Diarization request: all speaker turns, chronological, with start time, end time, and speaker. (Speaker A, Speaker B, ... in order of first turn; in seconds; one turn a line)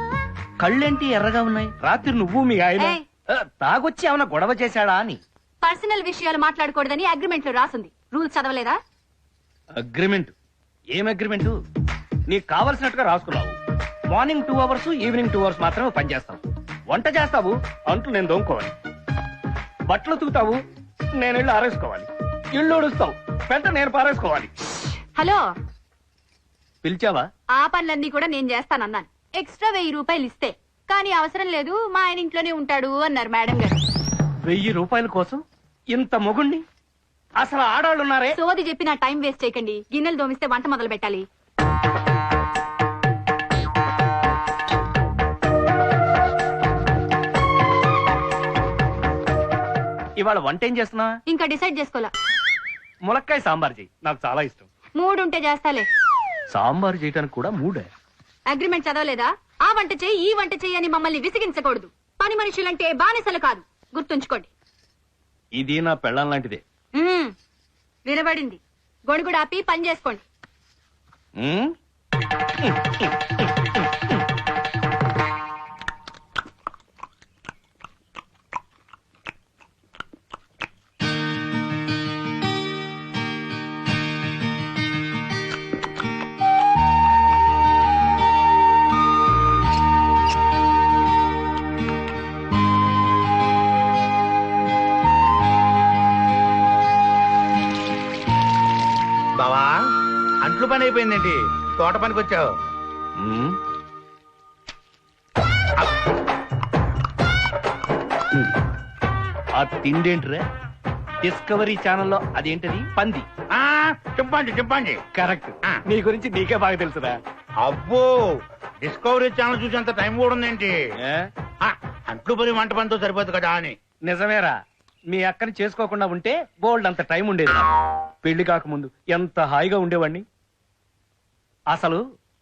Speaker A: 0.6-5.2
Speaker B: 2.8-3.0
Speaker B: 5.6-8.8
Speaker A: 9.8-10.3
Speaker A: 10.9-11.6
Speaker A: 12.3-13.6
Speaker A: 14.1-18.7
Speaker A: 19.9-20.6
Speaker A: 21.2-24.5
Speaker B: 25.1-25.4
Speaker A: 26.8-27.3
Speaker B: 27.5-33.8
Speaker A: 34.4-35.4
Speaker A: 35.9-36.6
Speaker A: 37.4-38.4
Speaker B: 38.3-41.3
Speaker A: 50.2-51.2
Speaker B: 51.3-52.1
Speaker A: 53.0-54.7
Speaker B: 54.9-55.9
Speaker A: 56.5-57.9
Speaker B: 58.5-64.5
Speaker A: 65.6-66.6
Speaker B: 66.9-67.3
Speaker B: 68.0-70.2
Speaker A: 71.4-71.7
Speaker A: 72.6-73.8
Speaker C: 99.4-99.8
Speaker C: 100.4-102.5
Speaker A: 103.2-103.6
Speaker A: 109.6-110.4
Speaker A: 111.2-113.3
Speaker C: 113.5-115.0
Speaker A: 115.1-117.2
Speaker C: 117.6-120.7
Speaker C: 121.6-123.8
Speaker A: 124.0-124.6
Speaker A: 125.1-127.7
Speaker A: 128.2-130.2
Speaker A: 131.7-132.0